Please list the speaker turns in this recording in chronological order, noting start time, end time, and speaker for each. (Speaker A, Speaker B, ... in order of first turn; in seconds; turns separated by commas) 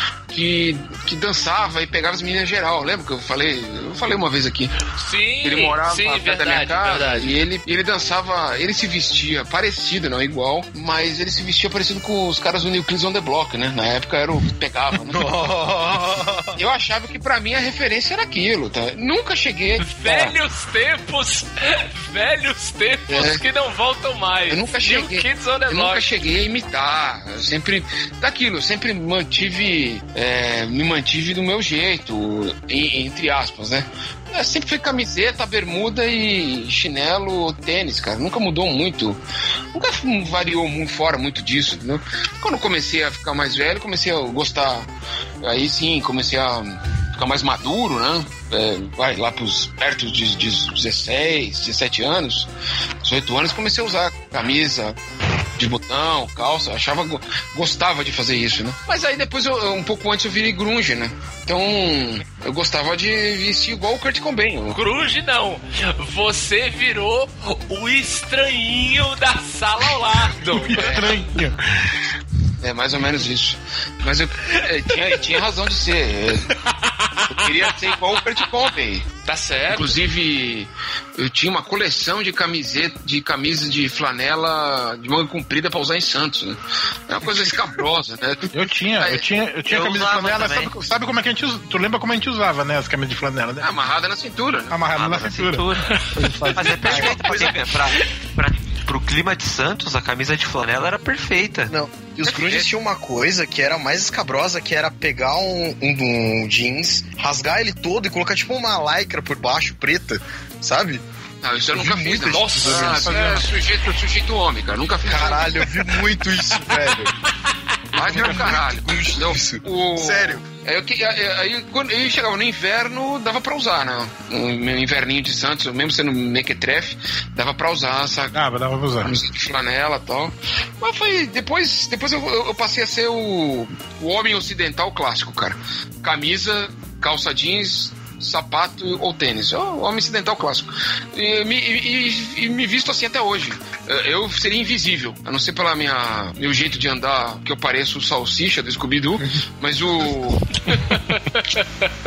Speaker A: 0.3-4.7, Speaker B: 5.0-7.4, Speaker A: 5.4-15.3, Speaker C: 15.1-16.6, Speaker A: 16.6-20.4, Speaker B: 19.8-26.1, Speaker A: 23.1-23.4, Speaker A: 24.5-39.2, Speaker A: 39.7-44.9, Speaker A: 45.4-52.5, Speaker A: 53.0-55.0, Speaker A: 55.6-64.8, Speaker B: 64.7-71.0, Speaker A: 70.3-71.1, Speaker D: 70.6-72.0, Speaker A: 72.6-76.5, Speaker B: 74.6-75.0, Speaker A: 77.3-79.1, Speaker B: 79.2-80.0, Speaker A: 79.7-89.2, Speaker D: 88.5-93.7, Speaker E: 89.6-90.7, Speaker A: 93.6-94.8, Speaker D: 94.7-97.4, Speaker E: 94.9-96.0, Speaker E: 96.5-101.7, Speaker C: 96.8-97.5, Speaker C: 101.7-111.0, Speaker A: 102.3-102.7, Speaker A: 111.4-115.6, Speaker C: 111.7-113.4, Speaker B: 112.2-113.5, Speaker D: 113.1-113.3, Speaker C: 115.0-117.1, Speaker A: 117.9-128.3, Speaker C: 118.0-120.5, Speaker D: 128.3-129.1, Speaker A: 129.0-150.5, Speaker B: 150.7-151.7